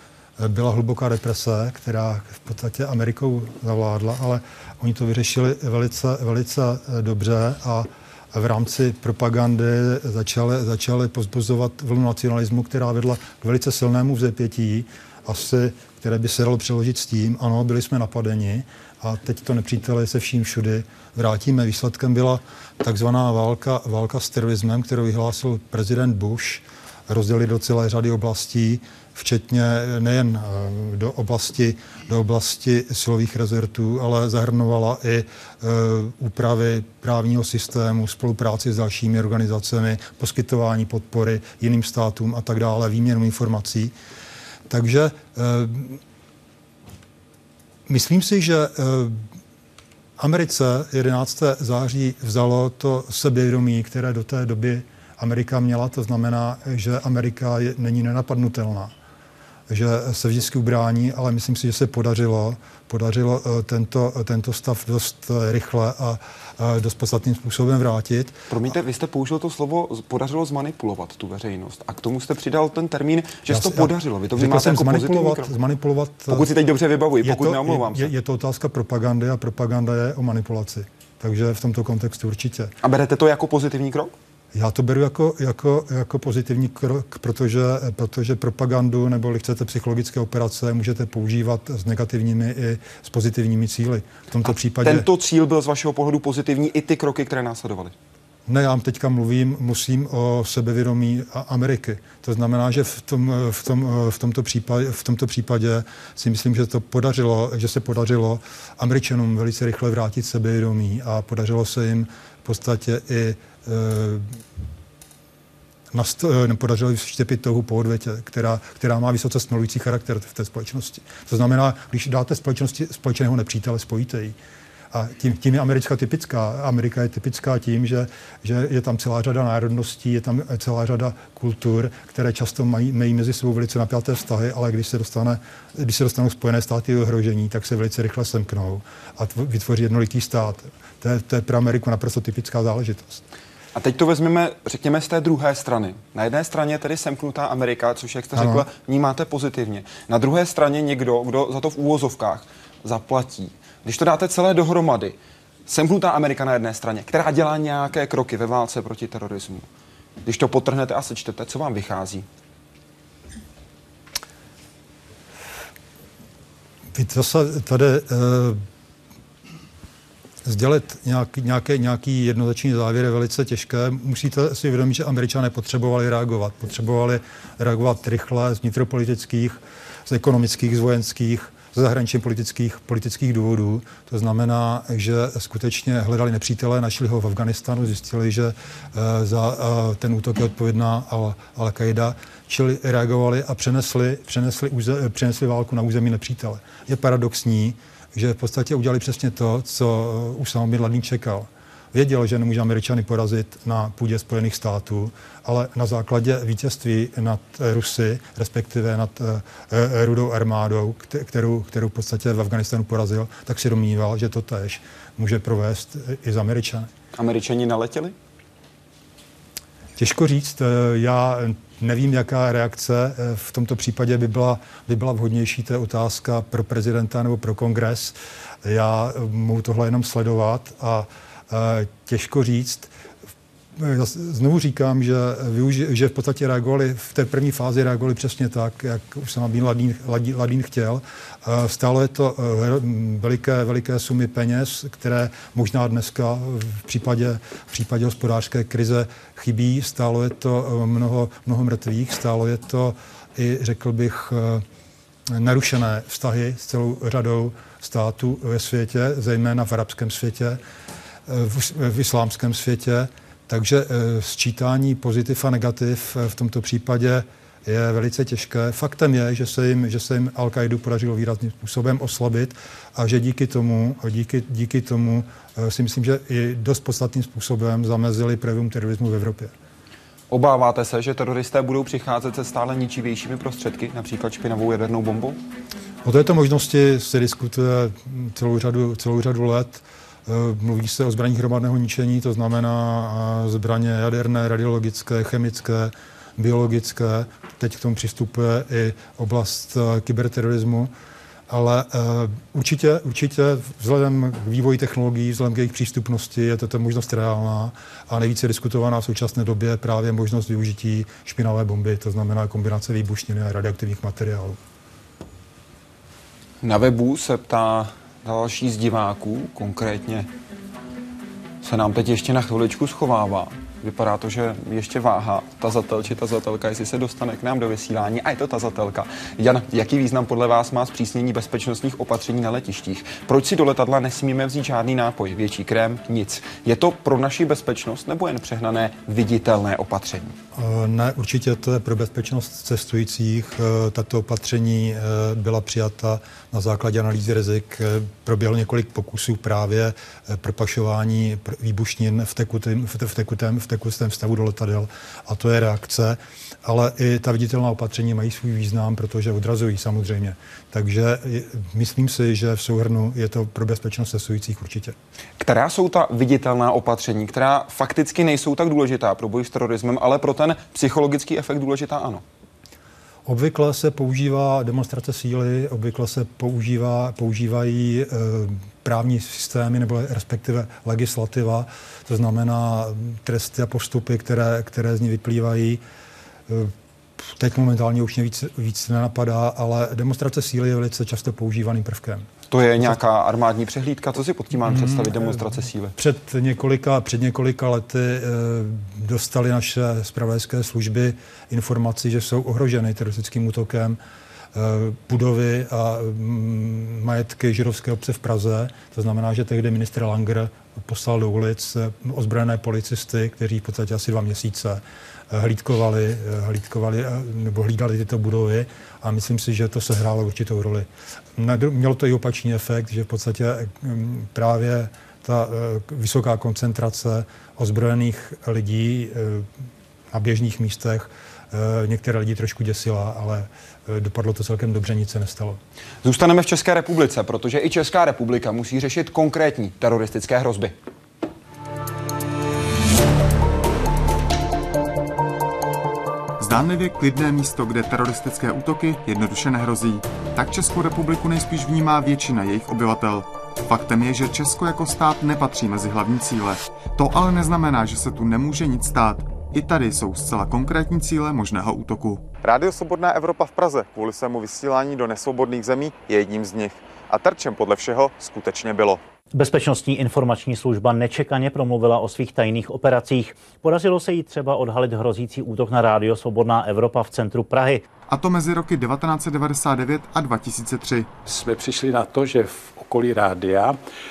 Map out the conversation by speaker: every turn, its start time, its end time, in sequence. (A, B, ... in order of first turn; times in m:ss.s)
0:00.4-0:43.9 A
0:44.7-0:46.0 A
0:47.9-0:49.2 A
0:50.2-0:58.9 A
0:59.7-1:08.4 A
1:08.5-1:15.5 B
1:13.5-1:16.5 A
1:16.3-1:18.1 B
1:17.2-1:22.8 A
1:22.8-1:24.1 B
1:24.5-1:35.1 A
1:34.4-1:37.9 B
1:38.5-1:54.4 A
1:55.9-2:04.4 A
2:04.9-2:23.2 A
2:23.7-2:35.2 B
2:28.4-2:28.7 A
2:35.7-2:39.7 B
2:40.2-2:42.3 B
2:46.9-2:48.6 A
2:50.4-3:36.9 A
3:37.2-3:38.2 B
3:40.0-3:52.9 A
3:53.8-4:14.6 A
4:15.3-4:20.6 A
4:21.3-4:39.5 A
4:40.3-4:45.4 B
4:46.0-5:00.9 A
5:01.5-5:14.6 A
5:16.6-5:20.3 B
5:21.6-5:40.4 B
5:40.6-6:05.0 A
6:05.4-6:12.2 B
6:13.3-6:25.8 A
6:26.5-6:26.7 A
6:27.3-6:33.0 A
6:32.5-6:36.0 B
6:34.7-6:44.0 A
6:44.5-7:09.5 A
7:10.1-7:15.6 A
7:16.0-7:20.7 B
7:26.4-7:49.0 C
7:49.3-7:57.8 D
7:58.1-8:01.1 C
8:01.3-8:03.8 E